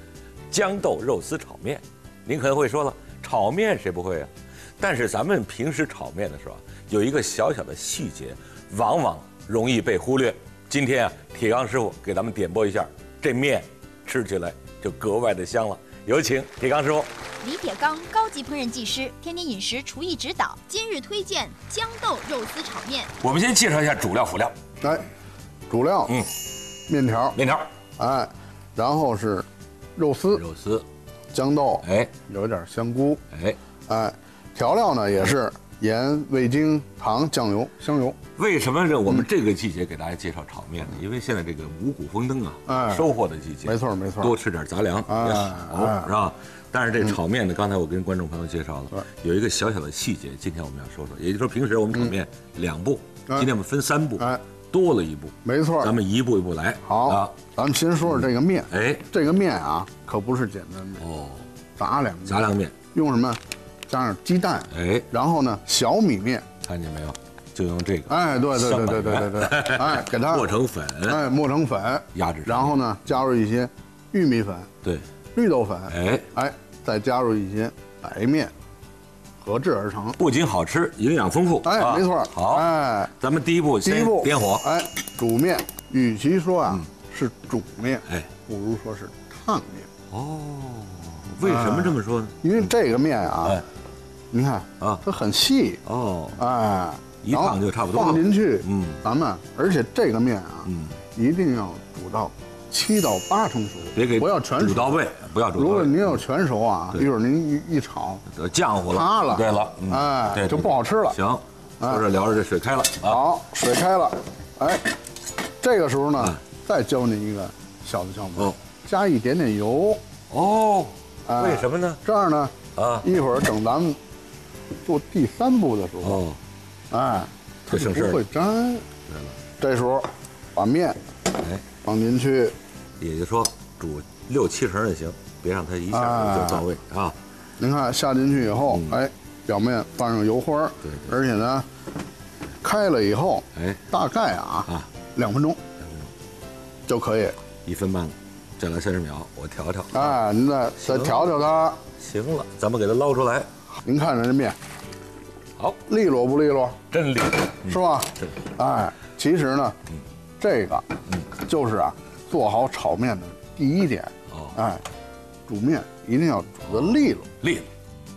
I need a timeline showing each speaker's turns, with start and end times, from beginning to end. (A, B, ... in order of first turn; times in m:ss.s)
0:00.5-0:17.1 A
0:17.4-0:23.1 B
0:23.2-0:24.6 A
0:24.8-0:25.1 C
0:25.7-0:26.2 C
0:26.9-0:27.4 C
0:27.3-0:27.7 A
0:28.0-0:30.4 C
0:30.3-0:30.8 A
0:31.3-0:33.2 C
0:31.8-0:32.1 A
0:33.3-0:33.6 A
0:33.9-0:38.2 C
0:38.4-0:57.3 A
0:42.6-0:43.1 C
0:43.6-0:44.3 C
0:45.1-0:46.1 C
0:55.4-0:55.9 C
0:56.8-1:01.0 C
0:58.0-0:59.1 A
1:01.0-1:01.4 A
1:01.8-1:06.4 C
1:02.2-1:02.7 A
1:04.7-1:05.1 A
1:06.6-1:11.2 A
1:08.1-1:10.5 C
1:11.0-1:14.7 C
1:12.1-1:12.8 A
1:15.3-1:18.5 C
1:15.9-1:16.3 A
1:19.4-1:20.2 C
1:20.2-1:24.6 A
1:21.6-1:23.1 C
1:23.8-1:29.9 C
1:30.1-1:32.5 A
1:31.4-1:33.6 C
1:34.3-1:35.8 C
1:35.8-1:36.4 A
1:36.4-1:45.0 C
1:37.2-1:39.0 A
1:40.6-1:41.0 A
1:43.9-1:46.2 A
1:45.5-1:48.2 C
1:48.3-1:53.2 A
1:48.9-1:51.2 C
1:53.0-1:54.9 C
1:55.6-2:00.0 C
2:00.3-2:02.0 A
2:01.3-2:04.0 C
2:02.8-2:03.1 A
2:04.8-2:06.2 C
2:06.0-2:06.4 A
2:06.9-2:08.8 C
2:07.7-2:08.2 A
2:09.1-2:09.4 A
2:09.6-2:11.0 C
2:11.3-2:11.6 A
2:11.8-2:12.5 C
2:13.0-2:17.2 A
2:15.9-2:16.6 C
2:17.6-2:21.7 C
2:18.7-2:19.0 A
2:20.8-2:21.2 A
2:22.6-2:25.6 C
2:23.5-2:23.8 A
2:25.8-2:26.1 A
2:26.9-2:27.4 C
2:27.6-2:30.2 A
2:29.9-2:31.8 C
2:30.8-2:31.4 A
2:32.0-2:33.5 A
2:33.8-2:34.6 C
2:35.9-2:36.8 C
2:36.9-2:38.3 A
2:37.7-2:39.8 C
2:40.4-2:40.8 C
2:41.4-2:44.8 C
2:44.3-2:44.6 A
2:45.5-2:47.3 C
2:46.7-2:47.7 A